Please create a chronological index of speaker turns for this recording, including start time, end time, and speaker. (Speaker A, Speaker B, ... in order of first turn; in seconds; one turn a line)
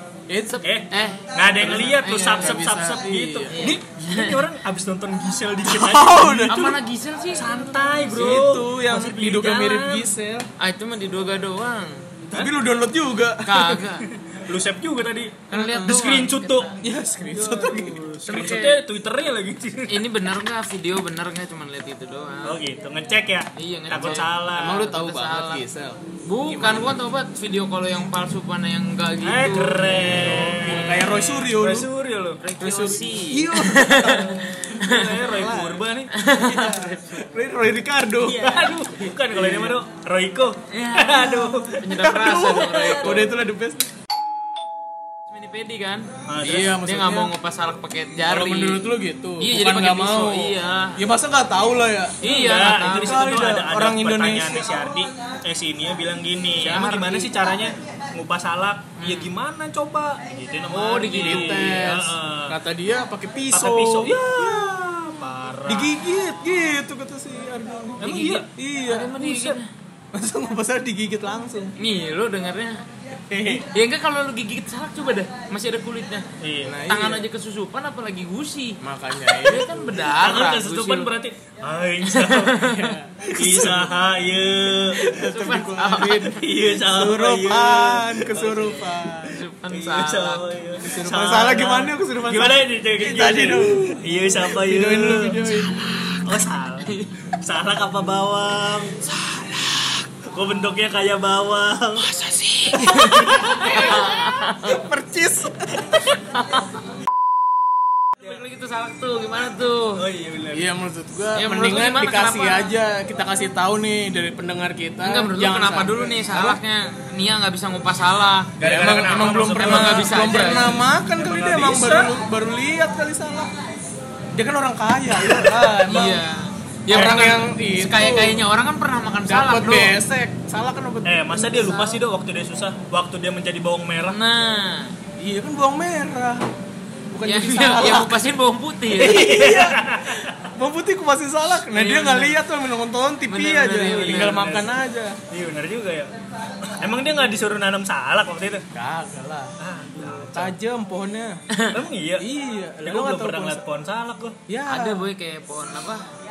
Speaker A: 0.3-0.6
Speaker B: 0.5-2.6
Speaker C: 0.6-6.7
Speaker A: 1.6-3.6
Speaker B: 3.5-4.4
Speaker A: 5.7-6.8
Speaker B: 6.5-7.4
Speaker C: 7.3-10.1
Speaker A: 8.1-10.5
Speaker B: 10.6-12.0
Speaker A: 12.3-13.8
Speaker B: 13.4-14.1
Speaker C: 13.8-16.7
Speaker B: 15.5-16.8
Speaker A: 15.5-16.0
Speaker A: 16.8-18.7
Speaker C: 17.3-20.0
Speaker B: 18.3-18.8
Speaker B: 19.9-22.6
Speaker C: 22.4-24.8
Speaker B: 23.6-25.6
Speaker A: 23.9-27.0
Speaker B: 26.2-30.8
Speaker C: 29.2-32.4
Speaker A: 29.9-31.9
Speaker B: 32.4-35.1
Speaker A: 32.6-38.7
Speaker C: 34.0-36.1
Speaker B: 36.1-37.4
Speaker B: 38.2-39.1
Speaker C: 38.4-43.1
Speaker A: 39.3-39.8
Speaker B: 40.7-43.3
Speaker A: 41.2-43.9
Speaker B: 45.3-46.1
Speaker C: 46.3-46.8
Speaker A: 46.4-47.3
Speaker B: 46.8-51.0
Speaker A: 48.2-54.6
Speaker B: 52.2-53.5
Speaker C: 52.2-62.6
Speaker B: 56.6-57.3
Speaker A: 56.6-57.0
Speaker B: 59.0-59.3
Speaker B: 60.7-61.7
Speaker A: 61.1-64.4
Speaker C: 63.5-65.9
Speaker A: 65.7-69.2
Speaker C: 68.0-68.5
Speaker B: 68.9-69.7
Speaker C: 69.2-69.6
Speaker A: 70.1-71.7
Speaker B: 71.8-72.8
Speaker A: 73.3-73.7
Speaker B: 73.4-76.3
Speaker C: 76.4-76.8
Speaker A: 76.6-77.3
Speaker B: 76.8-81.1
Speaker A: 78.8-79.7
Speaker C: 80.0-82.7
Speaker B: 82.0-82.9
Speaker A: 82.6-84.0
Speaker C: 83.4-85.1
Speaker A: 84.9-89.5
Speaker B: 85.1-86.4
Speaker C: 86.0-89.0
Speaker B: 89.1-90.4
Speaker C: 89.7-95.4
Speaker A: 90.8-96.1
Speaker B: 95.4-96.2
Speaker C: 96.2-99.1
Speaker B: 96.8-97.1
Speaker B: 99.1-100.0
Speaker C: 100.3-102.1
Speaker B: 102.0-104.8
Speaker C: 102.7-104.0
Speaker A: 103.5-105.9
Speaker B: 106.0-106.7
Speaker B: 108.2-110.0
Speaker C: 110.0-110.7
Speaker A: 110.5-116.6
Speaker B: 111.3-112.7
Speaker B: 115.0-118.5
Speaker C: 118.6-120.6
Speaker A: 118.6-123.5
Speaker B: 119.6-120.8
Speaker C: 121.2-122.2
Speaker A: 124.3-126.2
Speaker C: 125.2-126.0
Speaker B: 125.9-130.0
Speaker A: 126.9-128.4
Speaker C: 126.9-127.4
Speaker A: 129.2-131.8
Speaker C: 131.0-134.2
Speaker B: 134.1-134.9
Speaker A: 135.2-136.4
Speaker A: 137.1-138.2
Speaker B: 137.2-139.2
Speaker C: 138.9-140.3
Speaker A: 139.0-139.8
Speaker A: 140.6-145.2
Speaker B: 141.7-142.4
Speaker B: 143.3-144.4
Speaker C: 144.0-144.7
Speaker C: 145.3-146.1
Speaker C: 146.7-148.6
Speaker A: 148.7-149.5
Speaker C: 149.6-150.6
Speaker A: 150.3-151.4
Speaker C: 151.7-152.3
Speaker A: 152.2-153.6
Speaker C: 152.8-154.3
Speaker A: 154.5-155.1
Speaker B: 154.7-156.1